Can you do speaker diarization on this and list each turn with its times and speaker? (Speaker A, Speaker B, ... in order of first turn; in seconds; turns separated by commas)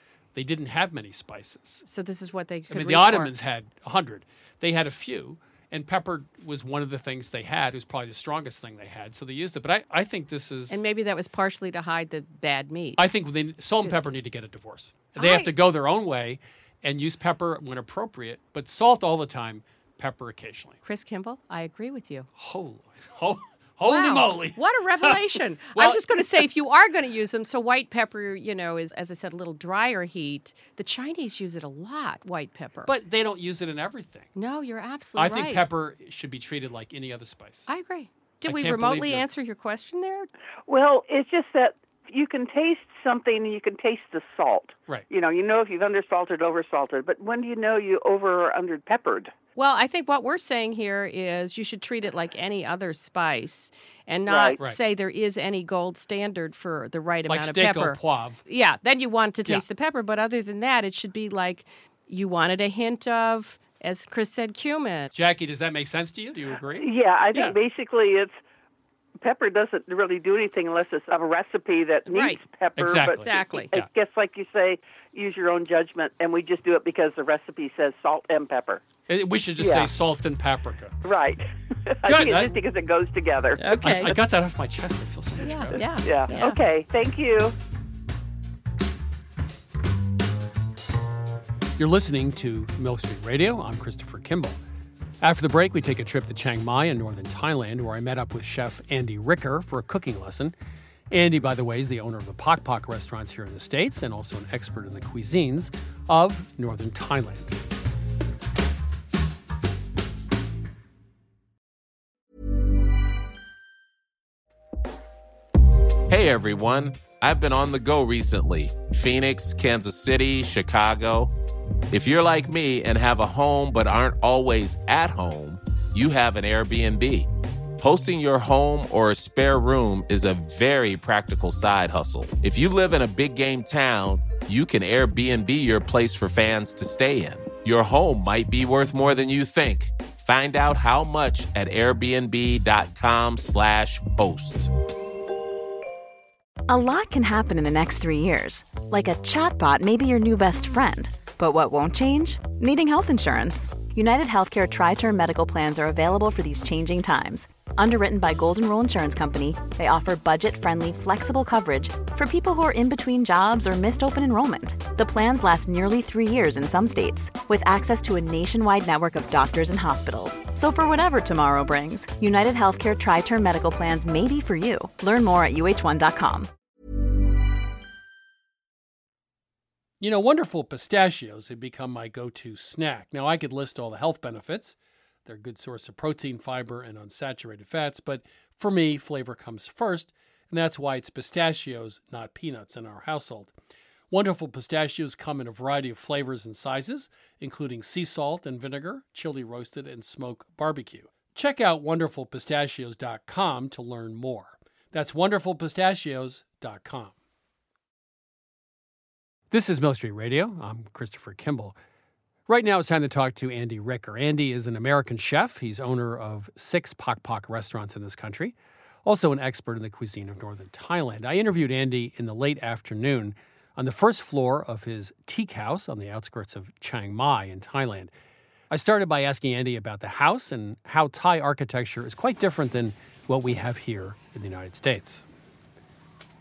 Speaker A: 0.3-1.9, Speaker B: 1.9-3.3, Speaker A: 2.7-10.8, Speaker B: 10.7-13.0, Speaker A: 13.0-20.8, Speaker B: 15.2-15.5, Speaker B: 20.8-22.3, Speaker A: 22.4-26.4, Speaker B: 23.9-32.9, Speaker A: 32.9-34.3, Speaker B: 34.4-35.6, Speaker A: 35.2-37.7, Speaker B: 37.7-40.3, Speaker A: 38.5-39.2, Speaker C: 40.7-49.3, Speaker B: 49.6-65.1, Speaker C: 54.3-54.6, Speaker A: 57.3-58.4, Speaker A: 65.1-67.6, Speaker C: 66.8-68.4, Speaker C: 69.2-78.8, Speaker B: 72.1-72.4, Speaker A: 72.8-73.8, Speaker B: 73.2-73.8, Speaker A: 79.1-81.0, Speaker C: 79.6-79.9, Speaker C: 81.0-84.2, Speaker A: 82.0-82.6, Speaker B: 83.6-84.2, Speaker A: 83.8-85.9, Speaker B: 85.4-86.6, Speaker C: 85.7-87.6, Speaker A: 91.8-94.6, Speaker A: 95.2-100.5, Speaker A: 101.1-107.6, Speaker D: 116.1-121.3, Speaker D: 121.9-144.7, Speaker E: 146.7-176.5, Speaker A: 180.0-193.5, Speaker A: 194.1-207.1, Speaker A: 209.5-211.8, Speaker A: 212.5-228.1, Speaker A: 228.7-235.2